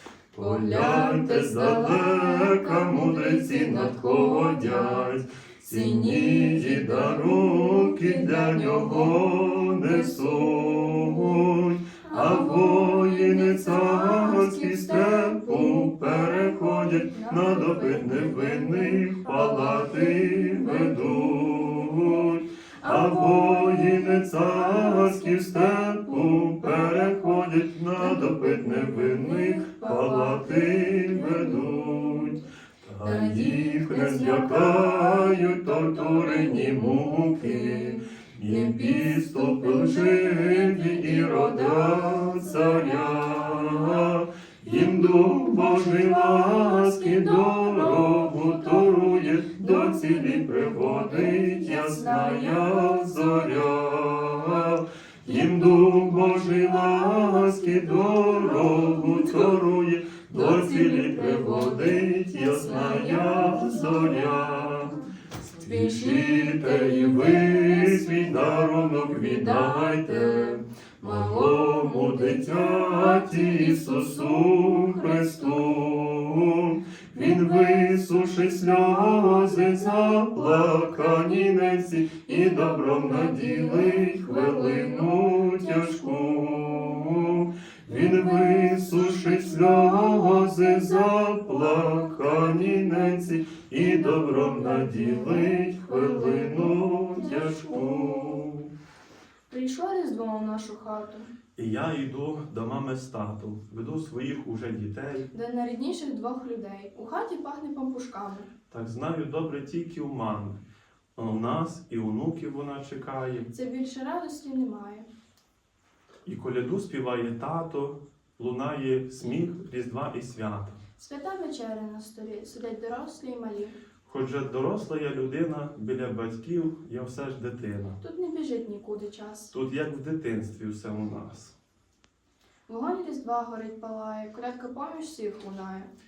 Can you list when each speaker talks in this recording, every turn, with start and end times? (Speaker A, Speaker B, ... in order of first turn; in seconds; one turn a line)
Speaker A: 0.3-98.7
Speaker B: 0.3-11.4
Speaker B: 12.0-32.4
Speaker B: 33.0-44.1
Speaker B: 44.6-53.7
Speaker B: 55.2-59.6
Speaker B: 60.3-64.9
Speaker B: 65.6-75.7
Speaker B: 77.1-77.9
Speaker B: 79.2-81.7
Speaker B: 82.3-86.7
Speaker B: 87.9-98.4
Speaker B: 99.5-101.3
Speaker A: 101.5-105.3
Speaker B: 105.3-108.5
Speaker A: 108.7-110.6
Speaker A: 111.2-113.5
Speaker B: 113.5-115.1
Speaker A: 116.2-120.8
Speaker B: 121.0-123.7
Speaker A: 124.0-128.0
Speaker B: 128.0-129.5
Speaker A: 129.5-131.5
Speaker B: 132.7-135.9